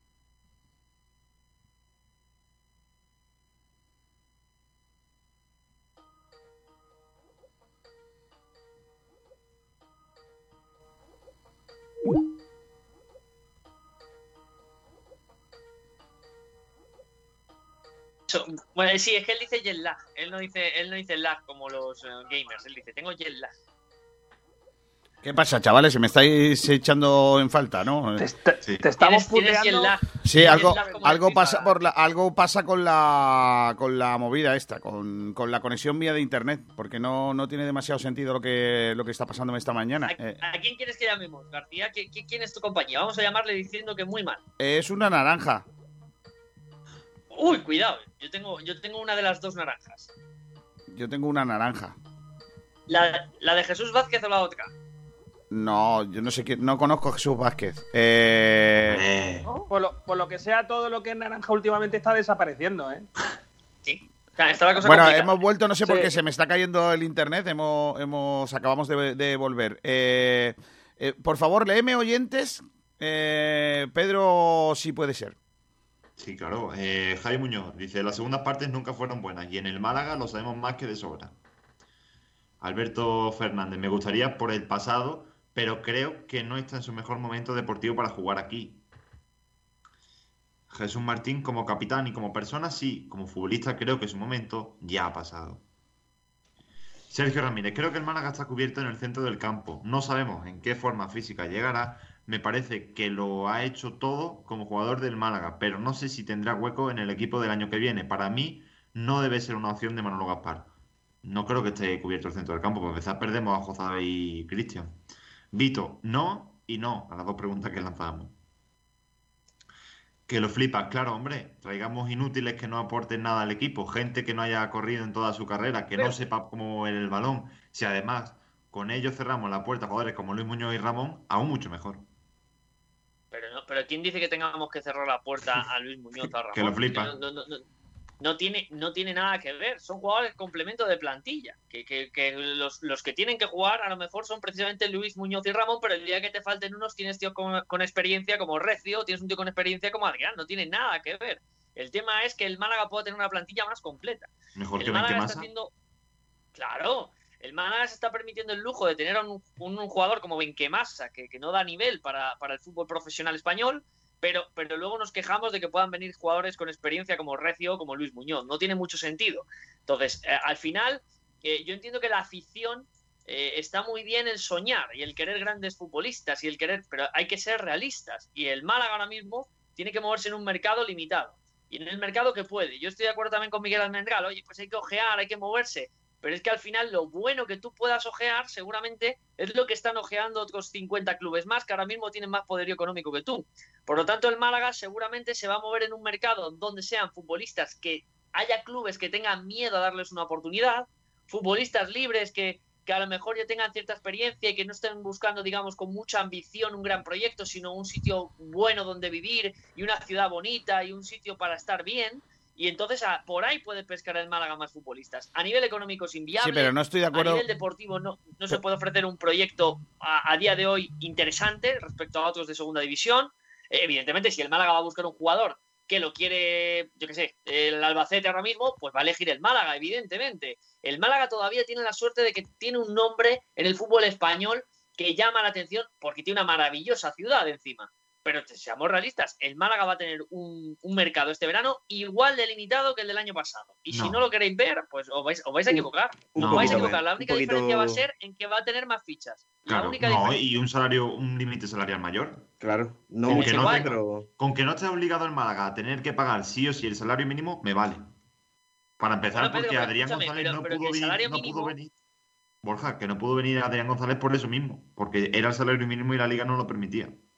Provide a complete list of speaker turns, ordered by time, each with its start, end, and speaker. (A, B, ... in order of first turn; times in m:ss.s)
0:18.3-0:23.6 A
0:25.2-0:28.2 B
0:28.2-0:30.0 C
0:29.0-0:31.8 A
0:30.2-0:40.4 B
0:30.5-0:31.0 C
0:40.0-0:44.4 A
0:44.6-0:45.6 B
0:47.3-0:50.1 A
0:50.9-0:51.9 B
0:52.9-0:54.7 A
0:55.5-0:59.0 B
0:58.9-0:59.5 D
0:59.7-1:03.0 C
1:03.8-1:05.4 A
1:04.8-1:15.4 B
1:05.8-1:06.1 C
1:16.2-1:21.3 D
1:22.6-1:28.8 D
1:30.7-1:35.6 D
1:37.1-1:50.7 D
1:51.2-1:54.9 D
1:55.5-1:58.3 D
2:00.3-2:12.0 D
2:13.3-2:17.6 A
2:16.5-2:17.2 D
2:18.2-2:35.7 A
2:34.5-2:35.5 D
2:36.5-4:10.4 A
3:36.4-3:37.4 B
4:03.9-4:04.2 D
4:05.7-4:08.0 E
4:06.4-4:07.0 D
4:09.6-4:12.4 D
4:12.6-4:14.3 E
4:13.2-4:14.0 A
4:13.2-4:18.1 D
4:19.0-4:21.9 D
4:19.3-4:21.7 A
4:22.6-4:27.2 D